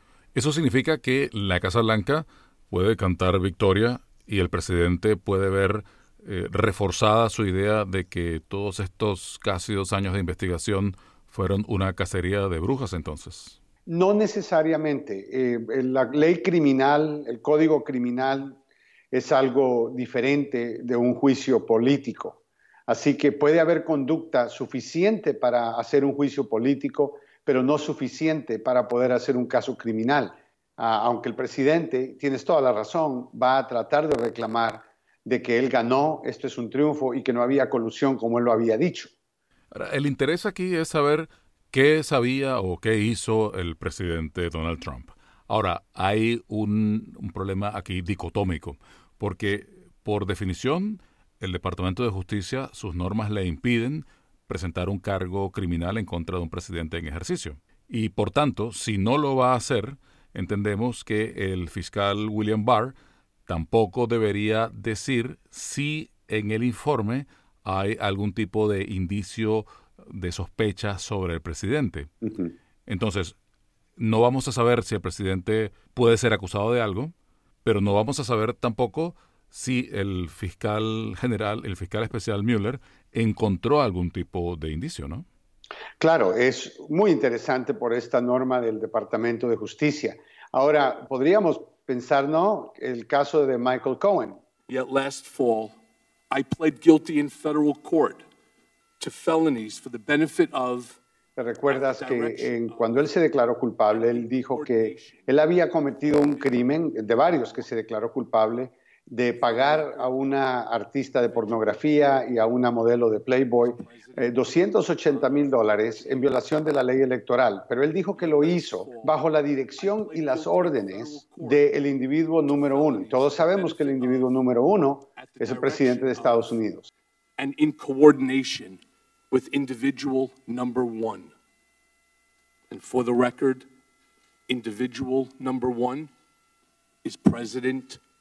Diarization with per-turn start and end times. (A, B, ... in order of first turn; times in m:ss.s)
0:00.3-0:13.6 A
0:13.9-0:18.6 B
0:19.1-0:39.1 B
0:39.7-1:02.9 A
1:03.5-1:12.1 A
1:12.9-1:13.3 A
1:14.0-1:25.2 A
1:26.0-1:34.4 B
1:34.7-1:35.7 C
1:36.3-1:38.2 C
1:39.0-1:40.9 C
1:41.4-2:06.9 B
1:41.7-1:42.8 C
1:43.9-1:45.2 C
1:49.4-1:50.1 C
1:51.3-1:51.7 C
1:53.6-1:54.3 C
1:55.1-1:56.2 C
1:58.2-1:59.1 C
1:59.8-2:01.6 C
2:02.5-2:04.3 C
2:05.2-2:06.4 C
2:07.4-2:08.8 C
2:09.3-2:11.3 C
2:12.7-2:13.6 C
2:14.5-2:16.1 C
2:17.0-2:18.0 C